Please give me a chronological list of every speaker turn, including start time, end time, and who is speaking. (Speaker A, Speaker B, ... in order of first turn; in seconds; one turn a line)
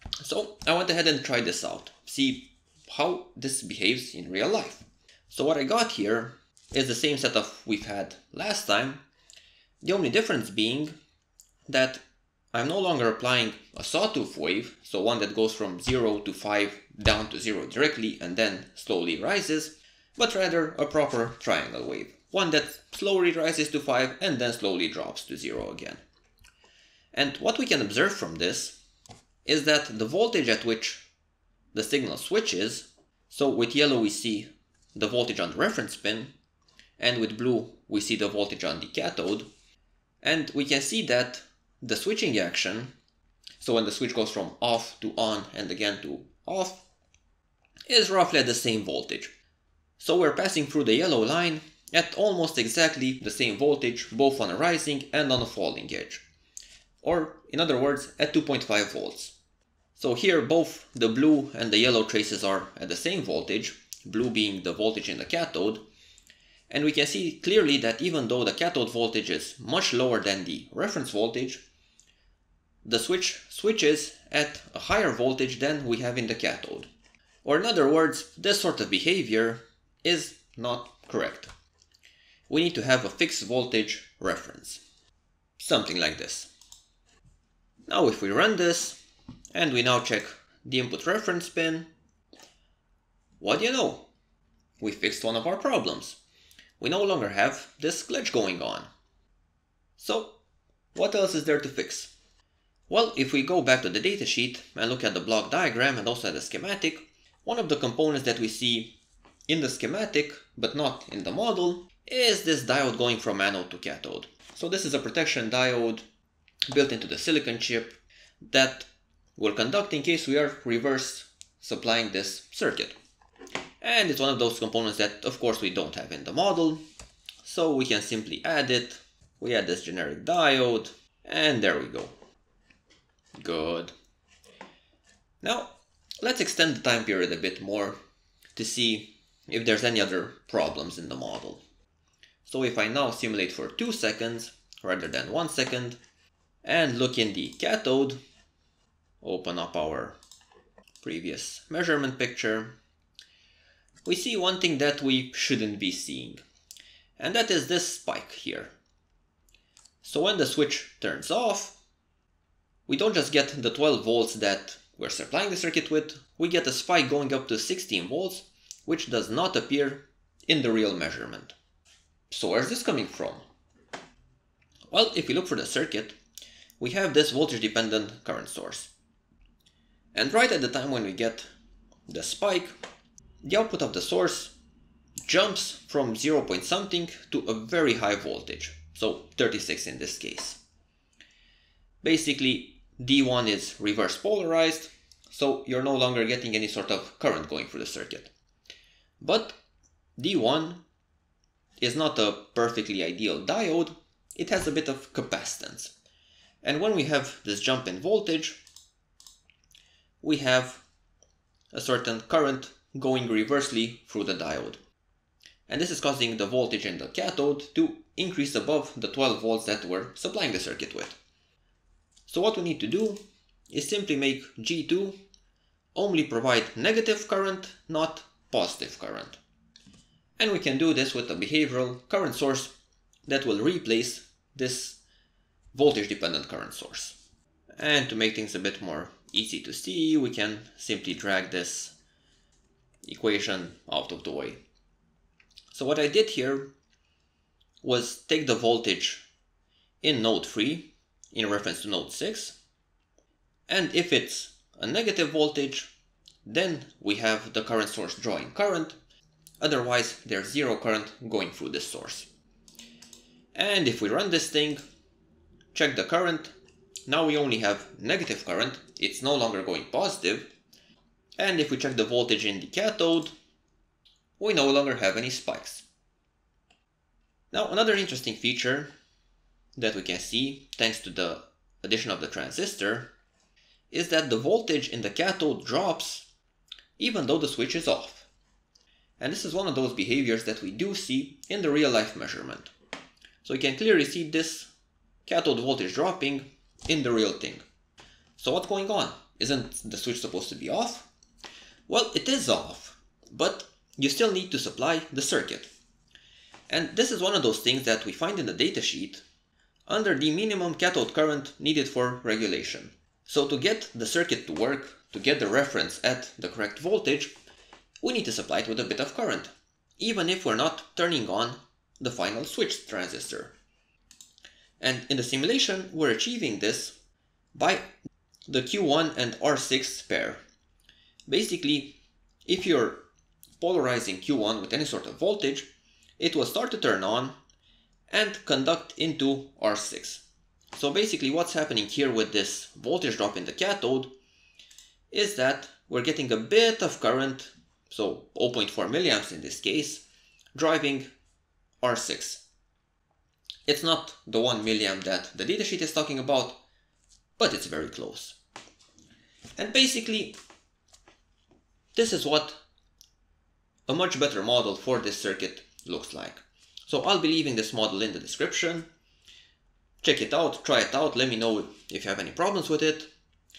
Speaker A: 0.2-9.0
Speaker A: 9.8-10.9
Speaker A: 11.7-12.0
Speaker A: 12.5-26.0
Speaker A: 27.1-28.8
Speaker A: 29.4-31.1
Speaker A: 31.7-36.3
Speaker A: 37.0-39.5
Speaker A: 40.2-42.9
Speaker A: 43.6-46.8
Speaker A: 47.9-49.3
Speaker A: 50.0-56.2
Speaker A: 57.0-59.4
Speaker A: 60.0-65.8
Speaker A: 66.7-71.6
Speaker A: 72.8-76.9
Speaker A: 77.4-81.5
Speaker A: 82.5-84.8
Speaker A: 85.6-86.5
Speaker A: 87.9-89.0
Speaker A: 89.5-91.9
Speaker A: 93.4-94.1
Speaker A: 94.8-96.2
Speaker A: 96.8-98.9
Speaker A: 100.0-100.3
Speaker A: 101.0-102.1
Speaker A: 102.9-109.0
Speaker A: 109.5-116.0
Speaker A: 116.7-118.0
Speaker A: 118.5-123.0
Speaker A: 123.8-126.8
Speaker A: 127.4-132.1
Speaker A: 133.4-133.9
Speaker A: 135.4-135.7
Speaker A: 136.2-138.0
Speaker A: 138.6-141.6
Speaker A: 142.4-146.0
Speaker A: 146.6-148.2
Speaker A: 149.2-150.2
Speaker A: 151.0-152.7
Speaker A: 154.1-156.4
Speaker A: 157.2-158.7
Speaker A: 160.0-161.8
Speaker A: 162.9-171.6
Speaker A: 172.3-173.4
Speaker A: 174.9-176.2
Speaker A: 176.8-178.9
Speaker A: 180.1-181.5
Speaker A: 182.1-182.7
Speaker A: 183.4-184.5
Speaker A: 185.2-190.6
Speaker A: 192.0-198.3
Speaker A: 199.2-199.6
Speaker A: 200.2-200.8
Speaker A: 201.8-205.9
Speaker A: 206.6-208.6
Speaker A: 210.2-210.8
Speaker A: 211.7-214.8
Speaker A: 215.7-221.2
Speaker A: 222.3-223.2
Speaker A: 223.7-225.2
Speaker A: 225.9-229.4
Speaker A: 230.4-232.7
Speaker A: 233.3-235.0
Speaker A: 235.7-237.2
Speaker A: 237.8-241.9
Speaker A: 243.0-244.6
Speaker A: 245.7-246.7
Speaker A: 247.8-249.2
Speaker A: 250.0-252.6
Speaker A: 253.7-255.9
Speaker A: 256.4-259.0
Speaker A: 259.6-262.3
Speaker A: 263.5-264.8
Speaker A: 265.7-266.5
Speaker A: 267.1-270.5
Speaker A: 271.4-273.3
Speaker A: 274.4-275.9
Speaker A: 277.5-278.9
Speaker A: 279.8-283.1
Speaker A: 283.9-286.3
Speaker A: 287.0-288.3
Speaker A: 289.2-292.7
Speaker A: 293.4-294.7
Speaker A: 295.3-297.6
Speaker A: 298.4-301.1
Speaker A: 301.9-305.7
Speaker A: 306.7-309.2
Speaker A: 309.9-317.3
Speaker A: 318.0-323.5
Speaker A: 324.8-326.9
Speaker A: 327.6-327.9
Speaker A: 328.5-330.4
Speaker A: 331.3-331.9
Speaker A: 332.5-333.0
Speaker A: 333.6-335.7
Speaker A: 336.2-337.4
Speaker A: 338.1-344.1
Speaker A: 345.1-350.0
Speaker A: 350.6-351.1
Speaker A: 351.8-352.4
Speaker A: 353.7-356.6
Speaker A: 357.4-358.4
Speaker A: 359.6-360.4
Speaker A: 361.9-362.6
Speaker A: 363.9-368.9
Speaker A: 370.0-373.1